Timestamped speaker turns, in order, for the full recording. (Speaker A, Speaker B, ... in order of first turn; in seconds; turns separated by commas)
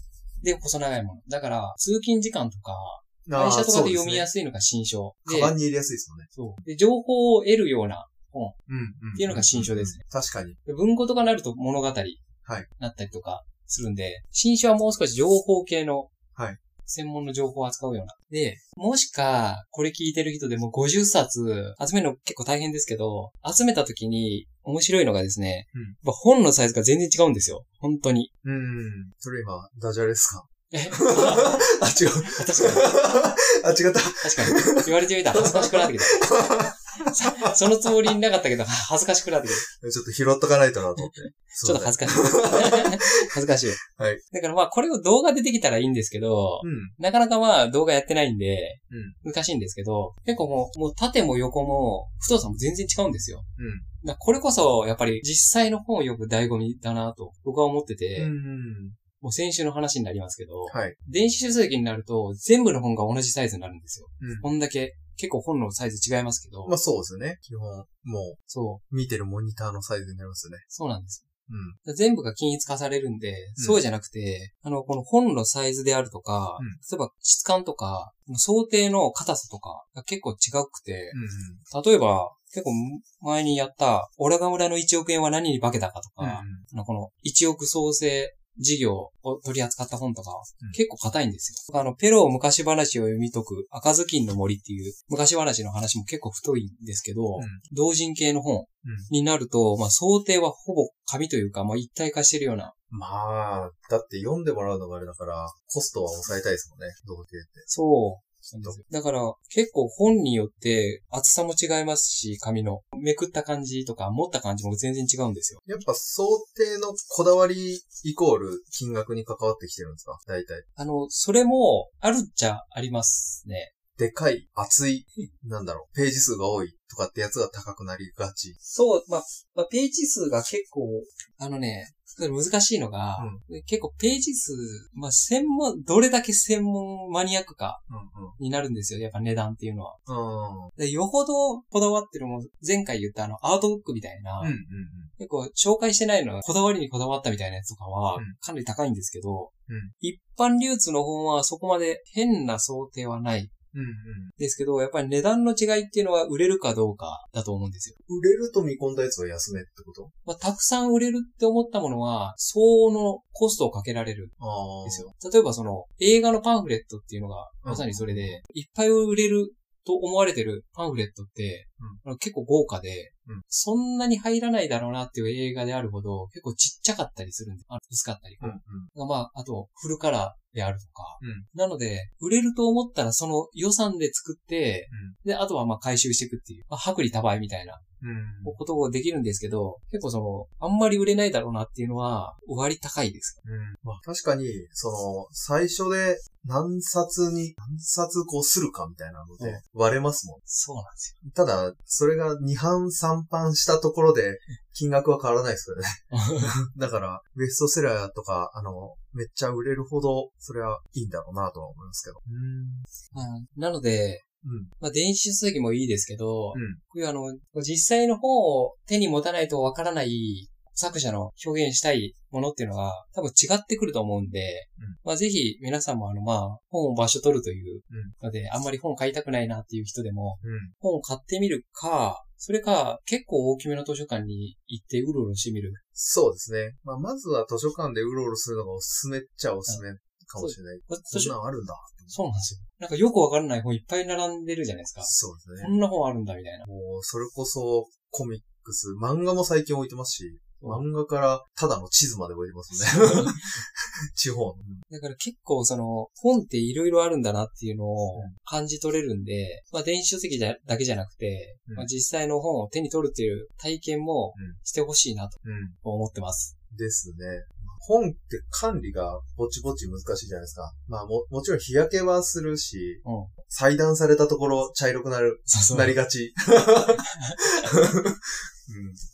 Speaker A: 0.4-5.6, Speaker B: 3.3-4.3, Speaker B: 5.3-6.3, Speaker A: 6.3-8.6, Speaker B: 8.7-10.6, Speaker A: 9.2-10.0, Speaker A: 10.7-12.2, Speaker A: 12.8-16.1, Speaker A: 16.9-28.3, Speaker B: 28.4-37.6, Speaker A: 30.7-31.7, Speaker A: 32.2-32.9, Speaker A: 34.2-36.3, Speaker A: 37.0-39.7, Speaker B: 39.7-44.2, Speaker A: 41.0-43.8, Speaker A: 44.3-53.5, Speaker B: 46.6-47.0, Speaker B: 48.9-49.2, Speaker B: 53.6-53.9, Speaker A: 54.0-58.3, Speaker B: 58.2-59.0, Speaker A: 59.2-66.8, Speaker B: 60.7-61.0, Speaker B: 64.2-64.5, Speaker B: 66.7-68.4, Speaker A: 68.5-68.8, Speaker B: 68.9-70.6, Speaker A: 70.7-71.3, Speaker B: 71.5-71.8, Speaker A: 71.8-81.2, Speaker B: 73.6-73.8, Speaker B: 81.1-81.6, Speaker A: 81.7-102.7, Speaker B: 86.2-86.6, Speaker B: 97.4-97.6, Speaker B: 98.8-99.1, Speaker B: 102.9-107.7, Speaker A: 107.7-115.6, Speaker B: 115.7-120.7, Speaker A: 120.8-123.7, Speaker B: 124.0-128.6, Speaker A: 128.6-137.8, Speaker B: 133.2-133.4, Speaker B: 137.9-138.4, Speaker A: 138.4-140.0, Speaker B: 140.1-140.7, Speaker A: 140.8-144.6, Speaker B: 144.4-145.1, Speaker A: 145.2-153.5, Speaker B: 149.7-149.9, Speaker B: 153.7-154.3, Speaker A: 154.4-158.0, Speaker B: 158.1-160.1, Speaker A: 160.3-187.8, Speaker B: 164.4-165.1, Speaker B: 167.6-168.4, Speaker B: 178.4-178.9, Speaker B: 181.2-181.5, Speaker B: 184.9-185.2, Speaker B: 188.0-188.6, Speaker A: 188.4-193.4, Speaker B: 193.4-200.4, Speaker A: 200.5-201.2, Speaker B: 201.2-212.9, Speaker A: 206.1-206.5, Speaker A: 213.1-214.2, Speaker B: 214.4-214.7, Speaker A: 214.8-235.8, Speaker B: 216.5-216.8, Speaker B: 227.9-228.2, Speaker B: 230.4-230.7, Speaker B: 235.9-242.2, Speaker A: 240.4-241.3, Speaker A: 242.1-246.7, Speaker B: 245.0-245.7, Speaker B: 246.6-254.8, Speaker A: 250.6-250.8, Speaker A: 252.7-253.5, Speaker A: 254.9-266.5, Speaker B: 265.4-265.8, Speaker B: 266.7-277.1, Speaker A: 273.0-273.3, Speaker A: 275.5-276.0, Speaker A: 277.0-277.7, Speaker B: 277.6-279.0